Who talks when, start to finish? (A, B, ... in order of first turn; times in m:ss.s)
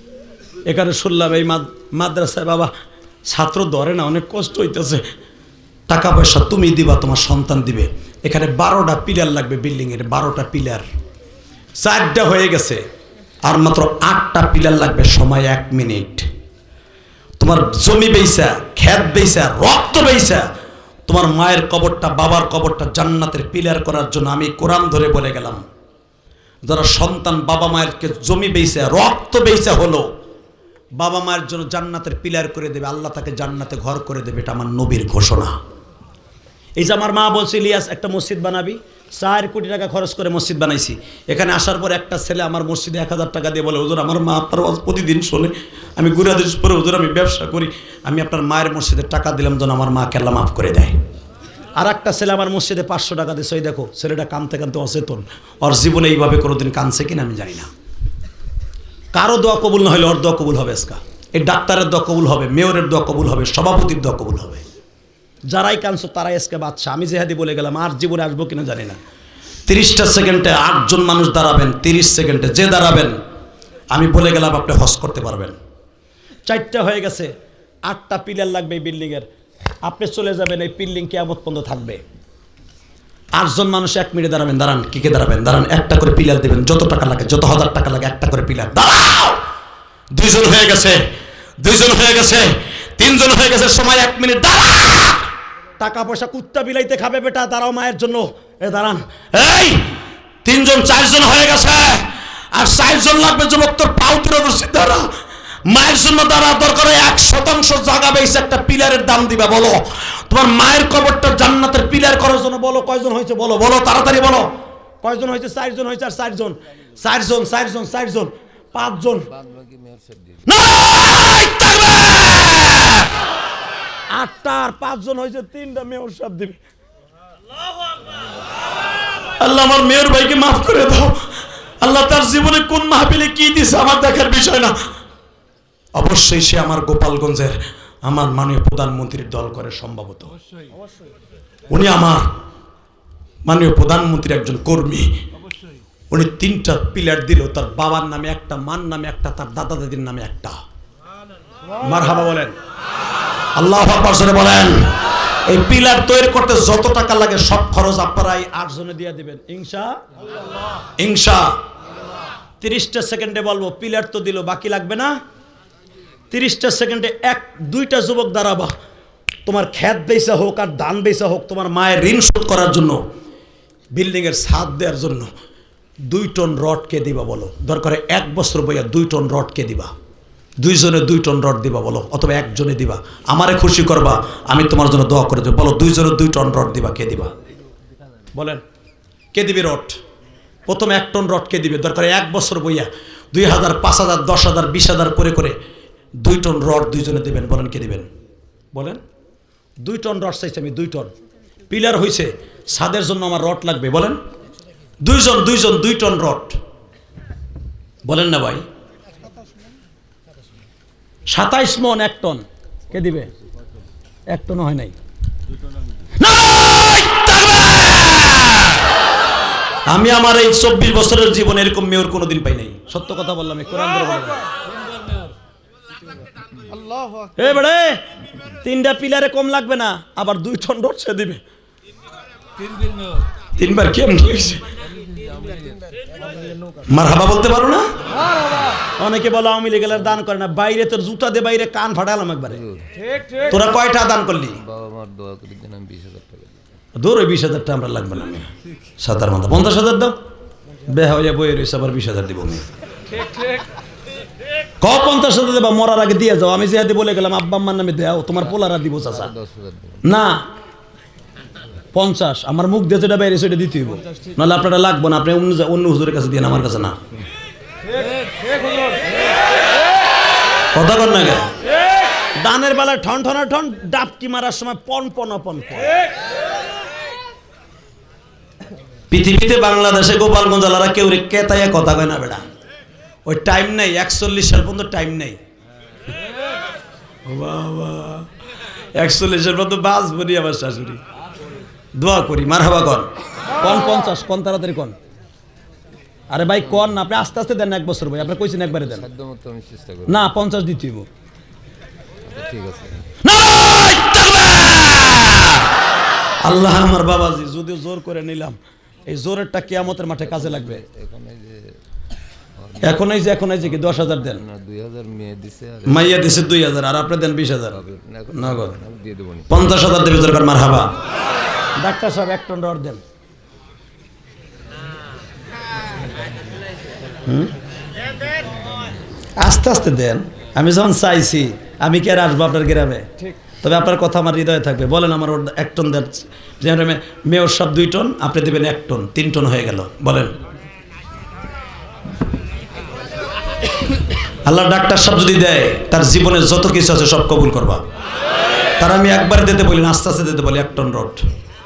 0:00.7-0:02.7 A
0:03.3-0:05.0 A
0:05.9-0:10.8 A
0:11.8-0:12.8 A
0:13.4-0:16.3 A
0:17.4-0:20.5 A
0:21.1-0:25.6 A
0:26.7-0:30.1 A
0:31.0-0:35.5 A
0:36.8-0:51.0 A
0:51.8-0:57.7 A
0:59.1-1:04.6 A
1:05.5-1:09.0 A
1:09.6-1:13.2 A
1:13.9-1:15.6 A
1:16.4-1:17.3 A
1:17.9-1:19.3 A
1:19.8-1:22.0 A
1:23.4-1:29.4 A
1:30.1-1:31.0 A
1:31.6-1:39.9 A
1:40.4-1:45.1 A
1:45.6-1:59.3 A
1:59.3-2:00.5 B
2:00.5-2:03.0 A
2:04.1-2:06.6 A
2:09.4-2:11.2 A
2:11.8-2:14.7 A
2:16.0-2:20.3 A
2:21.7-2:22.3 A
2:23.4-2:25.1 A
2:26.1-2:30.6 A
2:31.8-2:32.6 A
2:33.6-2:34.9 A
2:35.5-2:40.0 A
2:41.0-2:41.6 A
2:42.6-2:45.1 A
2:46.3-2:48.7 A
2:49.4-2:53.0 A
2:53.9-2:55.3 A
2:56.0-2:59.9 A
3:00.6-3:07.3 A
3:08.3-3:08.6 A
3:09.3-3:10.0 A
3:10.7-3:15.5 A
3:16.2-3:18.1 A
3:18.7-3:19.0 A
3:19.8-3:21.1 A
3:21.7-3:24.2 A
3:25.0-3:26.6 A
3:28.0-3:28.6 A
3:31.3-3:33.3 A
3:34.3-3:35.0 A
3:36.2-3:38.8 A
3:39.9-3:44.4 A
3:47.4-3:48.0 A
3:48.6-3:51.4 A
3:53.6-3:54.6 A
3:55.0-3:55.9 B
3:56.9-3:57.8 A
3:59.0-4:02.6 A
4:02.8-4:03.1 B
4:03.4-4:04.6 A
4:04.6-4:06.6 B
4:07.0-4:10.2 A
4:10.8-4:12.6 A
4:14.8-4:19.3 A
4:19.2-4:20.0 B
4:20.0-4:20.5 A
4:21.9-4:27.0 A
4:30.7-4:31.5 A
4:32.4-4:36.0 A
4:39.1-4:42.4 A
4:43.2-4:45.4 A
4:47.2-4:48.3 A
4:48.9-4:51.0 A
4:52.0-4:55.0 A
4:56.3-4:59.1 A
4:58.4-5:00.2 B
5:00.1-5:01.1 A
5:02.2-5:03.2 B
5:03.2-5:05.6 A
5:06.4-5:10.8 A
5:10.4-5:11.8 B
5:12.6-5:13.0 B
5:12.8-5:14.4 A
5:13.8-5:16.3 B
5:15.8-5:17.8 A
5:17.7-5:19.5 B
5:18.3-5:18.8 A
5:19.5-5:20.9 A
5:21.8-5:23.0 A
5:27.2-5:27.5 A
5:29.4-5:33.1 A
5:33.6-5:40.4 A
5:44.4-5:47.8 A
5:48.8-5:51.2 A